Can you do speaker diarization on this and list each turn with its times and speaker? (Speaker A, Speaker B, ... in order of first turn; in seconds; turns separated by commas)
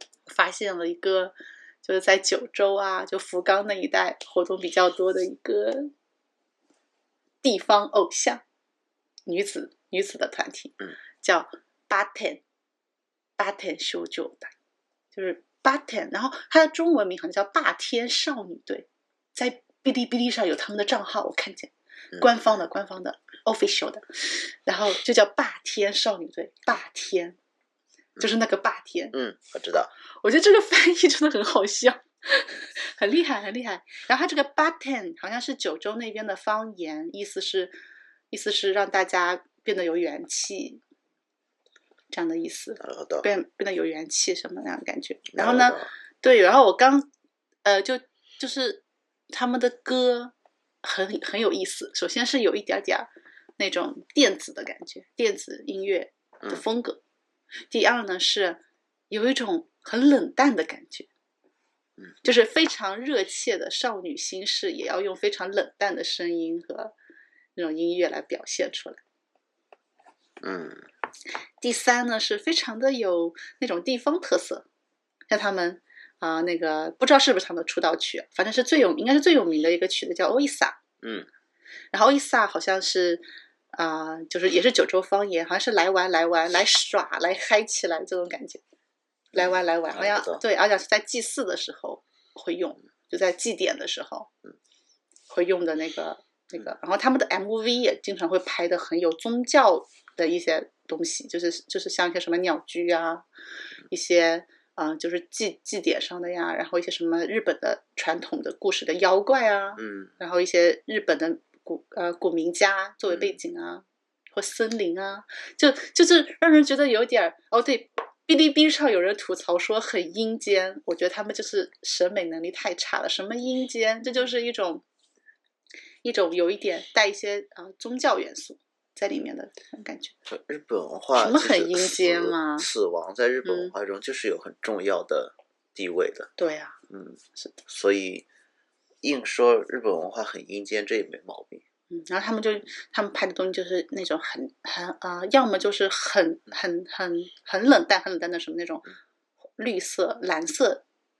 Speaker A: 0.3-5.9, Speaker A: 7.4-8.4, Speaker A: 9.2-12.4, Speaker A: 13.4-14.5, Speaker A: 15.1-27.4, Speaker A: 28.2-29.1, Speaker B: 29.1-29.9, Speaker A: 30.2-37.7, Speaker A: 38.3-40.8, Speaker A: 42.1-47.1, Speaker B: 42.8-43.3, Speaker B: 45.3-45.9, Speaker A: 47.6-57.0, Speaker A: 57.7-61.1, Speaker A: 62.2-66.9, Speaker A: 67.5-69.0, Speaker B: 70.4-70.9, Speaker A: 71.6-74.6, Speaker A: 75.3-80.8, Speaker B: 81.0-81.3, Speaker A: 81.9-88.6, Speaker A: 89.3-94.3, Speaker B: 89.3-90.4, Speaker A: 95.3-103.2, Speaker A: 103.9-124.8, Speaker B: 109.8-110.1, Speaker A: 126.0-130.1, Speaker B: 130.3-136.3, Speaker A: 131.2-132.7, Speaker A: 133.4-133.7, Speaker A: 136.4-136.8, Speaker B: 136.9-138.3, Speaker B: 139.0-141.6, Speaker A: 141.9-148.8, Speaker A: 149.6-150.8